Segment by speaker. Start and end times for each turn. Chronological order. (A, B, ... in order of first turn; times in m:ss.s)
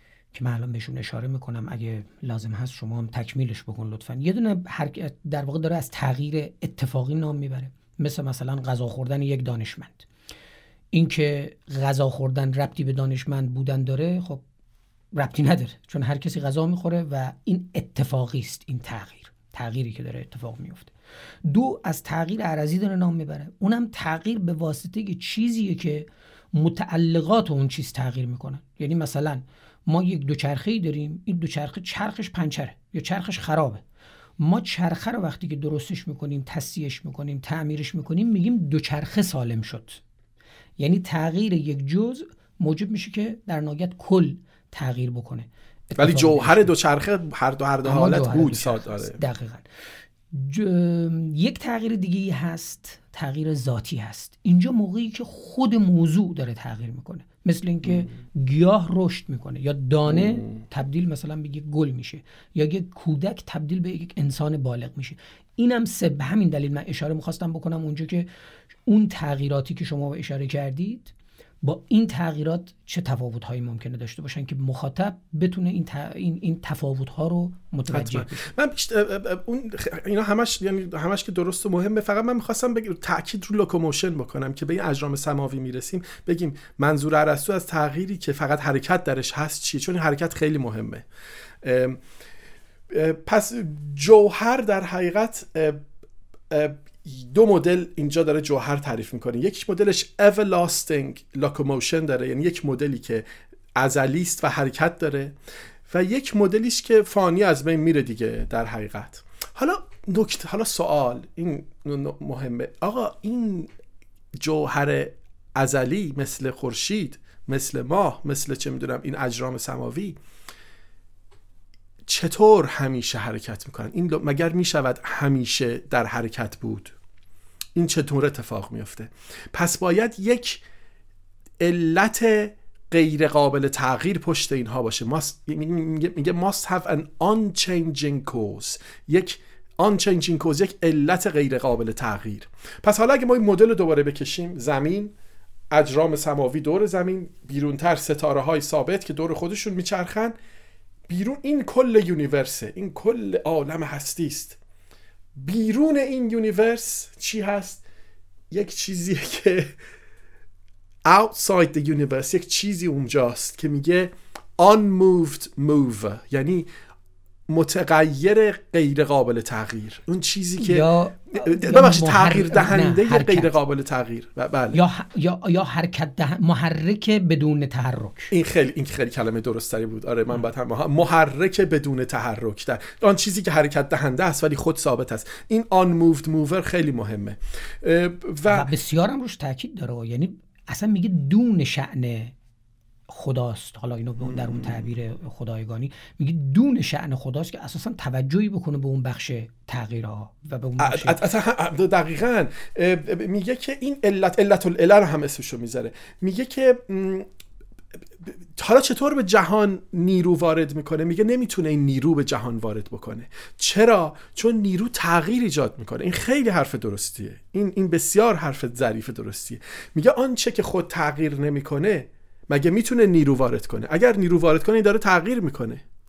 0:00.3-0:10.1 A
0:10.9-0:14.4 A
0:15.1-0:20.9 A
0:21.4-0:33.8 A
0:34.4-0:40.0 A
0:40.8-0:46.7 A
0:46.0-0:49.2 B
0:47.8-0:49.7 A
0:50.3-1:08.3 A
0:57.8-0:58.1 B
1:00.1-1:00.6 B
1:08.8-1:18.4 A
1:17.9-1:31.0 B
1:31.6-1:32.0 B
1:32.9-1:35.8 B
1:36.5-1:43.2 B
1:43.8-1:45.3 B
1:45.9-1:53.7 B
1:54.4-2:00.2 B
2:02.0-2:06.9 B
2:07.7-2:10.6 B
2:11.6-2:25.1 B
2:25.7-2:30.3 B
2:31.1-2:34.6 B
2:35.3-2:37.8 B
2:38.5-2:39.7 B
2:41.0-2:46.7 B
2:47.5-2:54.8 B
2:50.6-2:53.5 A
2:54.7-2:58.3 A
2:58.3-3:08.7 B
3:08.5-3:12.3 A
3:13.1-3:21.2 A
3:14.2-3:14.9 B
3:20.8-3:27.3 B
3:28.2-3:45.8 B